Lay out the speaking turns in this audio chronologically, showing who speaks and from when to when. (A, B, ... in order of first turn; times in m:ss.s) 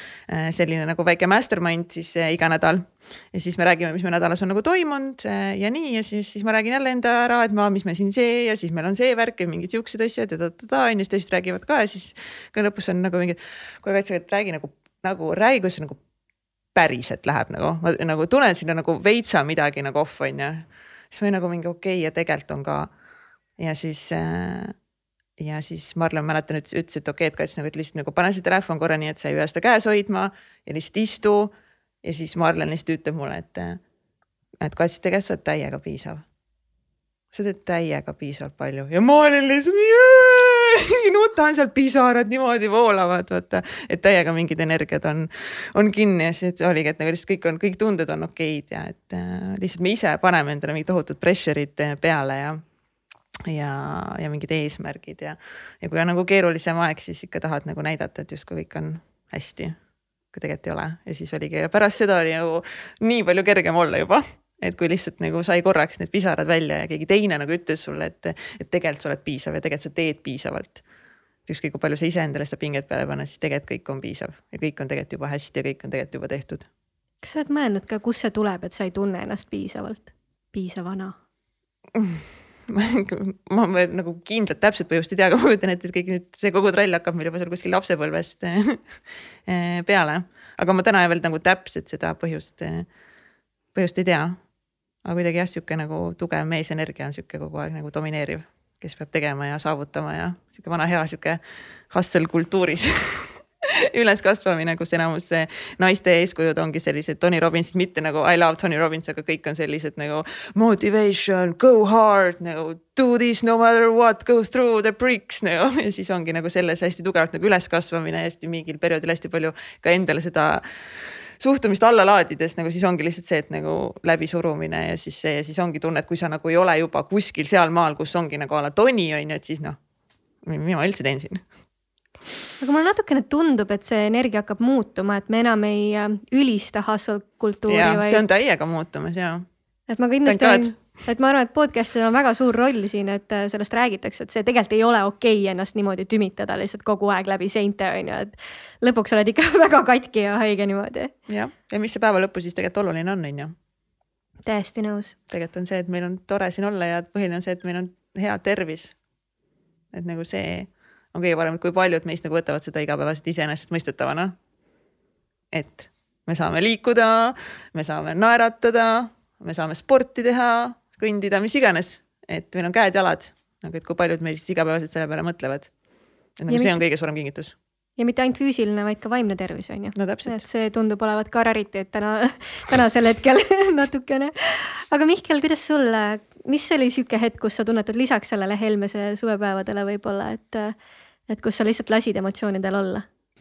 0:00.3-0:16.0 A
0:16.7-0:22.9 A
0:23.6-0:24.7 A
0:25.4-0:33.8 A
0:34.6-0:36.2 A
0:37.3-0:52.6 A
0:53.4-0:59.8 A
1:00.3-1:10.8 A
1:11.4-1:16.6 A
1:17.2-1:21.1 B
1:22.0-1:28.8 A
1:29.4-1:32.9 A
1:33.7-1:34.4 A
1:35.0-1:41.4 A
1:41.9-1:43.3 A
1:43.9-2:00.6 A
2:01.4-2:09.8 A
2:10.4-2:11.4 A
2:12.6-2:18.2 B
2:17.7-2:19.4 A
2:19.9-2:31.1 B
2:20.2-2:20.7 A
2:31.3-2:33.5 A
2:34.4-2:35.1 B
2:35.3-2:38.9 A
2:39.9-2:44.3 A
2:45.5-2:55.7 A
2:56.4-2:57.5 A
2:56.5-2:56.8 B
2:58.0-3:10.7 B
3:00.0-3:00.4 A
3:11.3-3:13.0 B